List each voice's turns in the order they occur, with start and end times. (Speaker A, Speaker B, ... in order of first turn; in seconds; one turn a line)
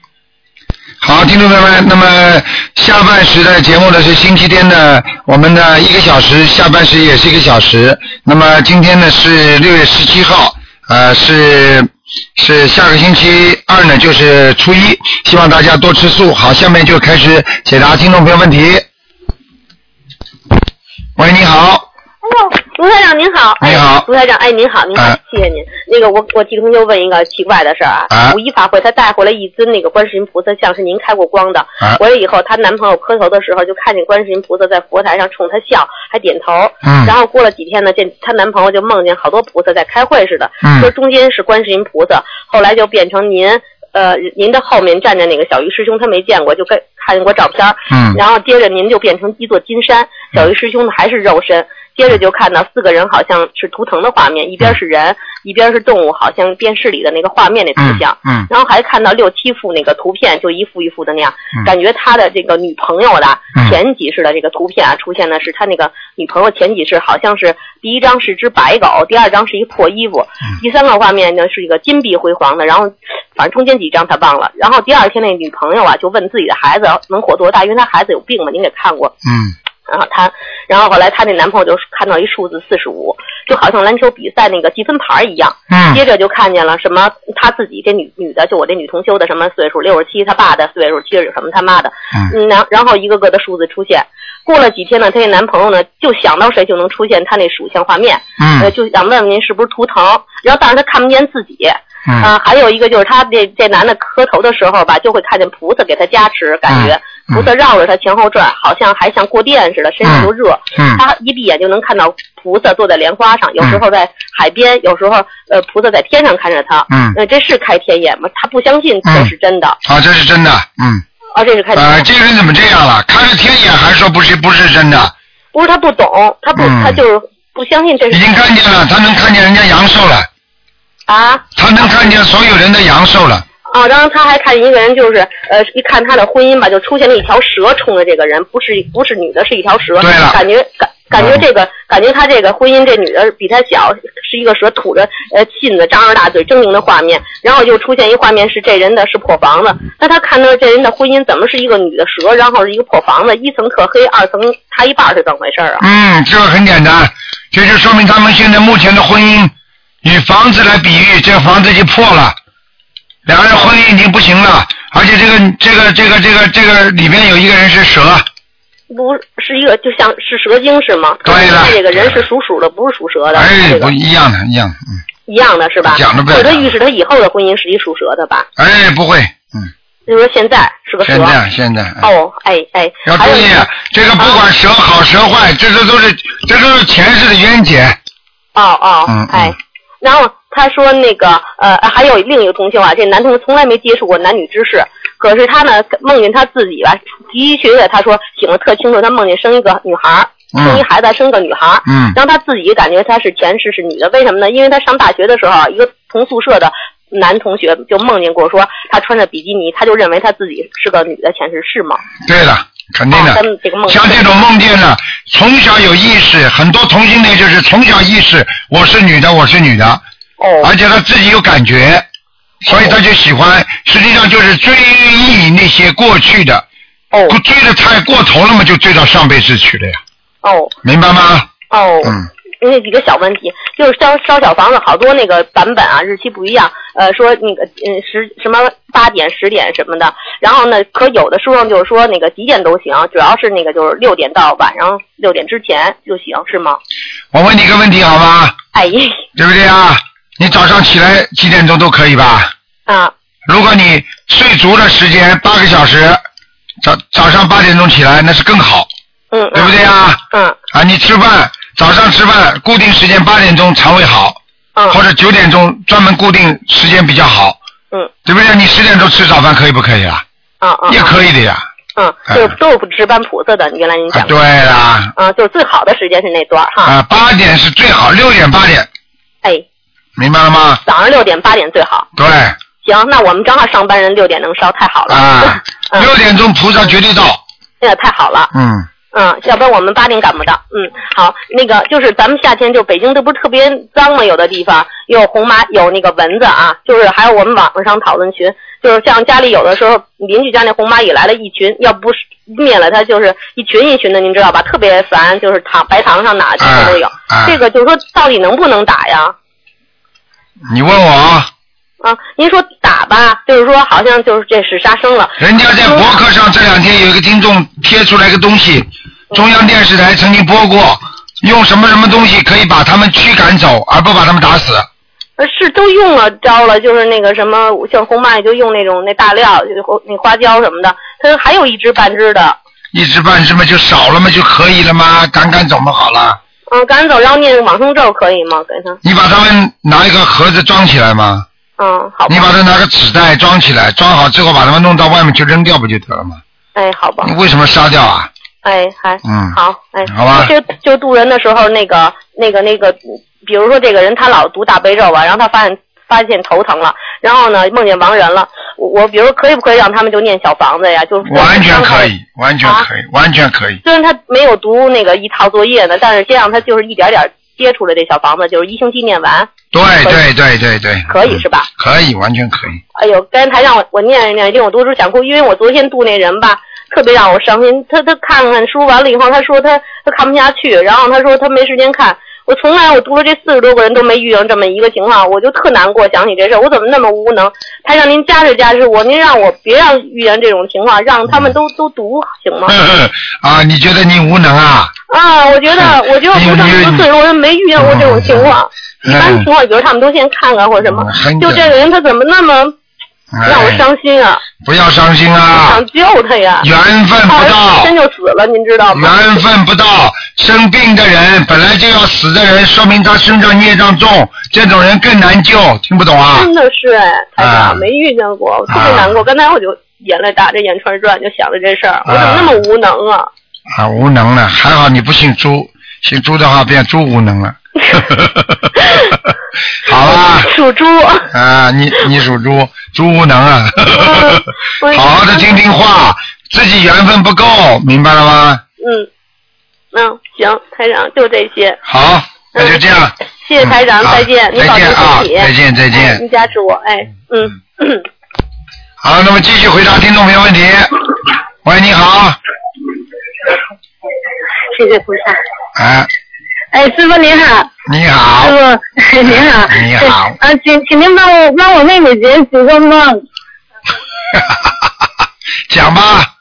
Speaker A: 1.0-18.8
Speaker A: 21.2-21.8
Speaker B: 22.4-79.1
Speaker A: 23.6-24.1
Speaker A: 28.1-28.4
Speaker A: 36.8-37.1
Speaker A: 40.6-40.9
Speaker A: 47.9-48.2
Speaker A: 57.8-58.5
Speaker A: 79.2-79.5
Speaker B: 79.9-119.8
Speaker A: 85.7-86.0
Speaker A: 98.4-98.7
Speaker A: 106.7-107.5
Speaker A: 110.0-111.0
Speaker A: 116.9-117.2
Speaker A: 119.0-119.3
Speaker A: 119.8-121.0
Speaker B: 121.3-122.1
Speaker A: 121.7-125.1
Speaker B: 125.5-128.2
Speaker A: 126.6-127.0
Speaker A: 128.1-130.3
Speaker B: 131.1-131.4
Speaker A: 131.6-133.4
Speaker B: 133.7-155.8
Speaker A: 140.0-140.4
Speaker A: 141.2-141.4
Speaker A: 155.8-159.5
Speaker A: 160.0-162.3
Speaker A: 163.3-168.2
Speaker B: 168.9-173.9
Speaker A: 171.2-172.2
Speaker A: 173.3-174.8
Speaker B: 175.3-178.5
Speaker A: 175.8-176.7
Speaker A: 178.6-179.7
Speaker B: 180.1-181.3
Speaker A: 181.0-182.1
Speaker B: 182.0-183.5
Speaker A: 183.1-188.0
Speaker B: 184.2-184.4
Speaker B: 188.5-212.0
Speaker A: 189.1-189.5
Speaker A: 200.5-200.8
Speaker A: 201.8-202.2
Speaker A: 212.2-220.0
Speaker B: 213.1-214.4
Speaker B: 220.4-220.7
Speaker A: 220.6-222.0
Speaker A: 222.7-226.6
Speaker B: 222.7-223.0
Speaker B: 227.1-227.4
Speaker A: 227.3-230.0
Speaker B: 230.4-230.7
Speaker A: 230.8-231.5
Speaker B: 231.7-246.8
Speaker A: 247.3-248.5
Speaker B: 248.7-249.2
Speaker A: 249.3-252.5
Speaker B: 252.9-253.1
Speaker A: 253.5-256.2
Speaker A: 256.8-258.9
Speaker B: 259.3-259.8
Speaker A: 259.5-260.2
Speaker B: 260.3-260.6
Speaker A: 260.7-264.4
Speaker A: 264.9-267.6
Speaker A: 268.2-270.2
Speaker B: 270.6-271.2
Speaker A: 270.9-271.6
Speaker B: 271.9-274.3
Speaker A: 274.1-275.1
Speaker B: 275.1-276.9
Speaker A: 276.8-278.9
Speaker A: 280.2-280.8
Speaker B: 280.8-282.1
Speaker A: 282.1-282.6
Speaker B: 282.8-286.1
Speaker A: 285.1-287.4
Speaker B: 287.8-288.5
Speaker A: 288.5-288.9
Speaker B: 289.1-309.3
Speaker A: 306.6-307.6
Speaker A: 310.7-311.5
Speaker B: 312.0-316.2
Speaker A: 315.4-324.9
Speaker B: 325.4-332.6
Speaker A: 332.9-336.4
Speaker B: 336.7-339.0
Speaker A: 339.0-341.4
Speaker B: 341.8-342.5
Speaker A: 342.3-346.4
Speaker B: 346.7-347.3
Speaker A: 347.2-348.3
Speaker B: 348.6-362.1
Speaker A: 349.2-350.5
Speaker A: 361.2-363.8
Speaker B: 363.8-369.5
Speaker A: 369.7-372.8
Speaker B: 371.1-371.7
Speaker B: 372.9-392.8
Speaker A: 392.7-394.9
Speaker B: 395.1-402.7
Speaker A: 395.8-397.0
Speaker A: 397.8-398.5
Speaker A: 399.1-399.4
Speaker A: 400.8-401.7
Speaker A: 403.3-403.8
Speaker B: 403.4-404.4
Speaker A: 404.6-405.8
Speaker B: 405.6-406.7
Speaker A: 406.6-407.9
Speaker B: 407.3-409.4
Speaker A: 408.9-416.5
Speaker B: 416.3-423.3
Speaker A: 417.4-417.8
Speaker A: 418.7-419.2
Speaker A: 422.1-422.6
Speaker A: 423.7-428.4
Speaker B: 428.8-429.1
Speaker A: 429.8-430.5
Speaker B: 430.1-431.3
Speaker A: 431.3-438.6
Speaker B: 433.9-435.5
Speaker B: 438.8-439.1
Speaker B: 439.9-441.8
Speaker A: 441.9-446.2
Speaker B: 442.5-442.8
Speaker B: 443.4-448.0
Speaker A: 449.0-450.9
Speaker A: 451.6-452.4
Speaker C: 454.7-455.4
Speaker A: 455.8-456.1
Speaker C: 456.7-457.7
Speaker A: 457.9-458.6
Speaker C: 458.4-463.2
Speaker A: 459.2-460.4
Speaker A: 464.3-464.7
Speaker A: 465.7-466.3